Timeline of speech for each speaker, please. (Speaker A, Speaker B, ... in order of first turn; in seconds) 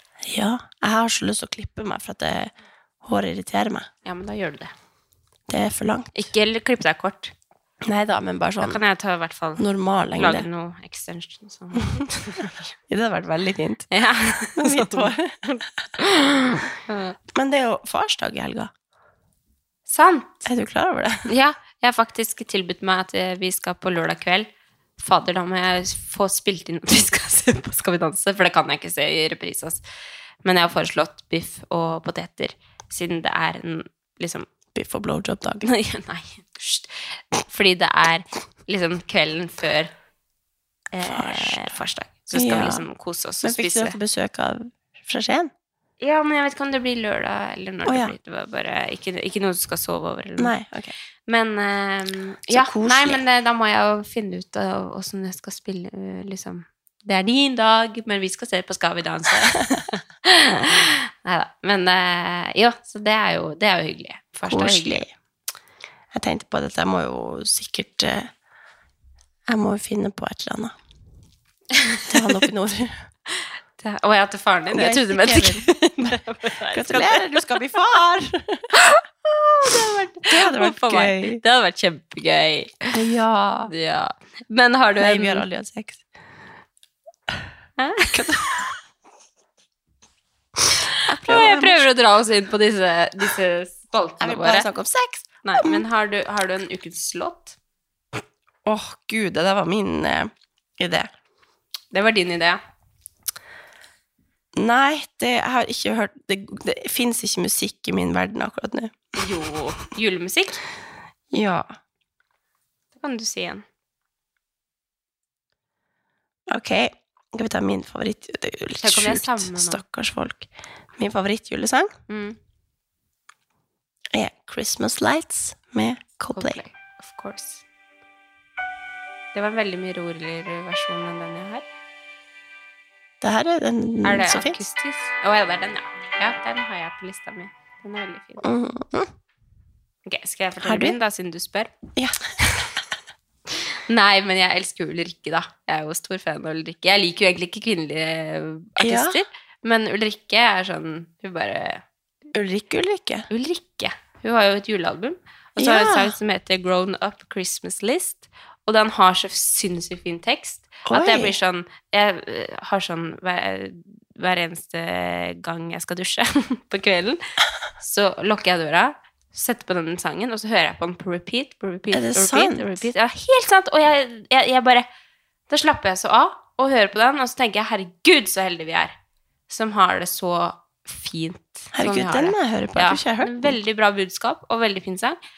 Speaker A: 0.2-3.9, 5.5-6.3, 7.8-8.8, 9.6-10.5, 12.9-15.5, 17.3-18.7, 20.4-21.3, 34.7-35.7, 41.0-41.7, 42.3-42.8, 43.4-45.5, 47.9-48.1, 50.4-50.9, 52.5-53.2, 64.5-65.1, 66.1-68.3, 69.5-70.8, 72.1-73.0, 74.7-76.2, 76.7-78.7, 79.7-81.4, 82.9-83.7, 85.0-86.0, 88.1-88.6, 91.0-91.8, 94.2-95.8, 98.6-101.1, 104.5-109.3, 111.3-111.7, 116.5-121.9, 124.1-126.6, 133.2-134.6, 138.4-139.1, 140.6-141.0, 141.9-142.8, 148.8-149.2, 152.3-153.3, 155.6-156.1, 160.9-161.3, 171.9-172.8, 181.7-183.6
Speaker B: 4.0-4.7, 6.1-7.3, 8.6-9.6, 10.1-12.7, 13.9-15.1, 16.0-17.1, 19.9-20.5, 21.3-24.5, 25.0-29.8, 30.4-34.5, 35.6-39.9, 40.9-44.0, 46.0-50.5, 51.3-65.0, 71.8-72.1, 73.8-77.6, 78.8-83.0, 83.7-85.5, 87.8-88.4, 91.2-94.7, 95.4-97.5, 101.9-102.6, 109.2-110.6, 112.9-113.6, 118.8-119.8, 122.1-122.4, 126.3-127.6, 129.3-131.6, 134.0-138.4, 140.1-141.7, 143.9-151.8, 153.3-167.2, 167.8-174.8, 175.5-178.9, 179.5-185.2